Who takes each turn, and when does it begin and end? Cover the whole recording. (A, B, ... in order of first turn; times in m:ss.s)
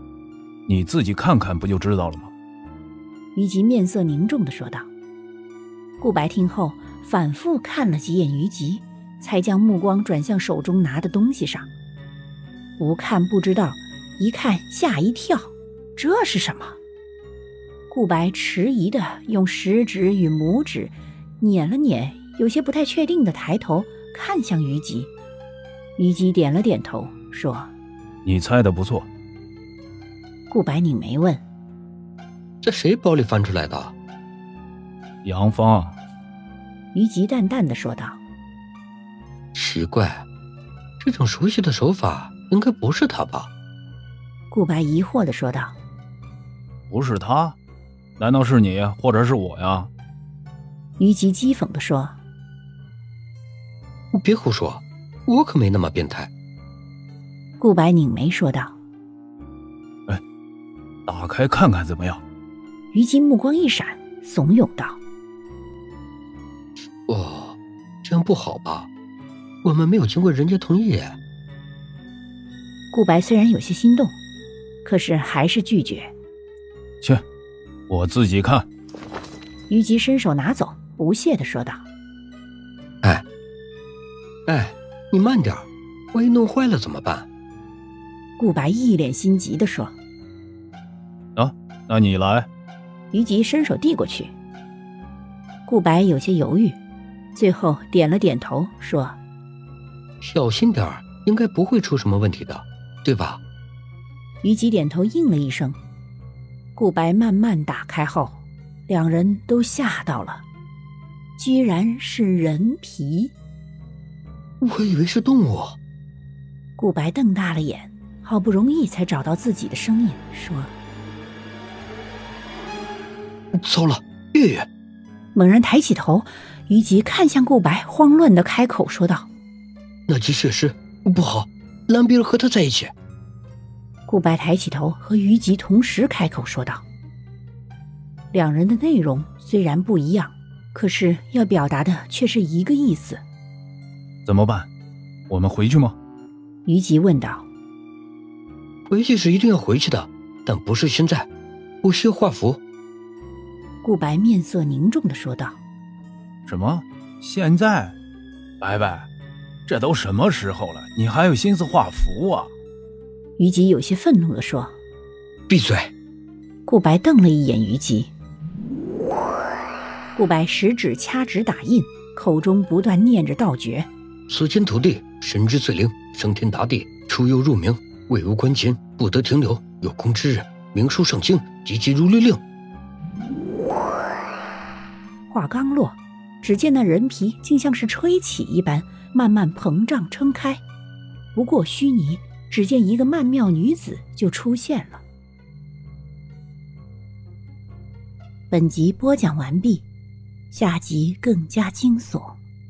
0:00.7-0:02.3 A
0:03.3-0:04.9 B
0:06.0-0:11.7 B
0:12.8-0:16.8 B
0:17.9-0:25.1 B
0:26.0-0:27.7 B
0:28.2-0:29.1 A
0:30.5-0:31.4 B
0:32.6-0:33.9 C
0:35.2-0:36.0 A
0:36.9-0:38.2 B
0:39.5-0:40.2 C
0:41.0-0:43.5 C
0:44.5-0:45.8 B
0:46.9-0:47.6 A
0:48.2-0:49.9 A
0:51.0-0:52.2 B
0:54.1-0:56.3 C
0:57.6-0:58.8 B
1:01.1-1:02.2 A
1:02.9-1:05.0 B
1:07.1-1:08.9 C
1:09.6-1:11.2 C
1:12.9-1:14.1 B
1:14.8-1:16.1 B
1:17.9-1:18.6 A
1:19.7-1:21.8 B
1:24.4-1:27.3 C
1:28.4-1:29.9 B
1:31.4-1:32.5 A
1:33.1-1:34.3 B
1:35.6-1:36.8 B
1:37.3-1:39.2 B
1:40.2-1:43.4 C
1:44.4-1:45.8 B
1:46.7-1:50.4 B
1:51.4-1:53.3 B
1:54.6-1:55.8 C
1:56.8-2:00.7 B
2:03.5-2:04.7 C
2:05.3-2:09.3 B
2:10.1-2:12.9 C
2:14.1-2:16.8 B
2:18.3-2:23.2 B
2:24.2-2:24.7 A
2:25.3-2:26.0 A
2:26.6-2:27.4 B
2:28.9-2:31.3 C
2:31.8-2:32.6 C
2:33.8-2:35.6 B
2:36.5-2:38.0 A
2:38.6-2:39.1 A
2:39.7-2:42.5 A
2:43.4-2:44.7 B
2:45.5-2:45.9 C
2:46.6-2:48.1 B
2:50.1-2:53.9 B
2:54.3-3:02.4 C
3:05.3-3:10.6 B
3:11.3-3:15.0 B
3:18.5-3:19.8 B
3:20.5-3:22.4 B